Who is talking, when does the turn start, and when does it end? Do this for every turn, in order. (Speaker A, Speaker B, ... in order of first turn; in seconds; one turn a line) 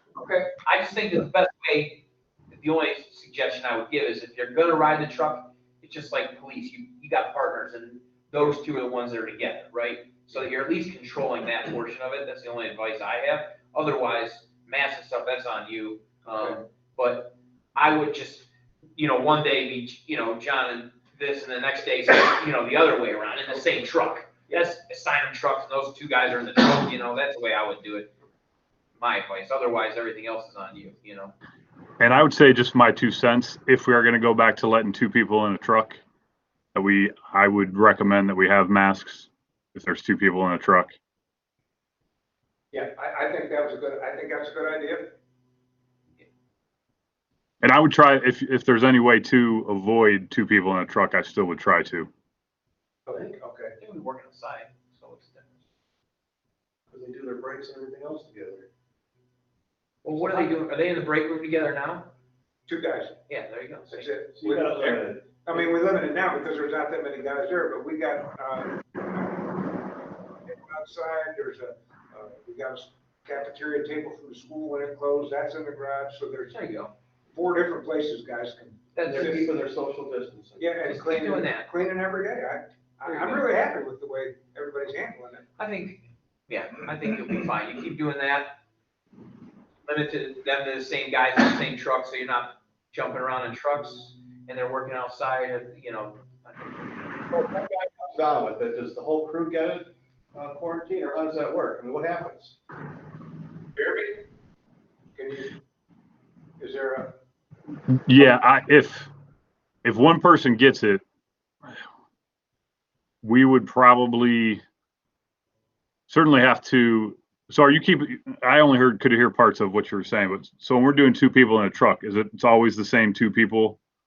Speaker A: 0.2-28.1
Speaker B: 16.2-16.6
Speaker A: 29.0-31.3
Speaker C: 32.0-36.0
Speaker C: 36.7-40.9
Speaker B: 42.7-45.2
Speaker C: 47.6-52.1
Speaker B: 53.1-53.8
Speaker A: 53.8-55.5
Speaker D: 56.9-58.7
Speaker A: 60.0-62.1
Speaker B: 62.7-63.2
Speaker A: 63.3-64.1
Speaker B: 63.9-69.3
Speaker D: 64.3-65.6
Speaker B: 70.3-76.6
Speaker A: 76.5-76.9
Speaker B: 77.3-79.5
Speaker A: 78.9-79.4
Speaker D: 79.0-80.7
Speaker B: 80.6-85.5
Speaker A: 80.9-81.7
Speaker A: 83.0-83.5
Speaker A: 85.6-88.6
Speaker A: 89.9-96.8
Speaker D: 97.3-102.6
Speaker B: 103.8-104.2
Speaker B: 105.2-105.6
Speaker B: 106.6-107.1
Speaker C: 108.1-109.1
Speaker C: 109.8-111.0
Speaker C: 113.2-114.6
Speaker C: 116.1-123.8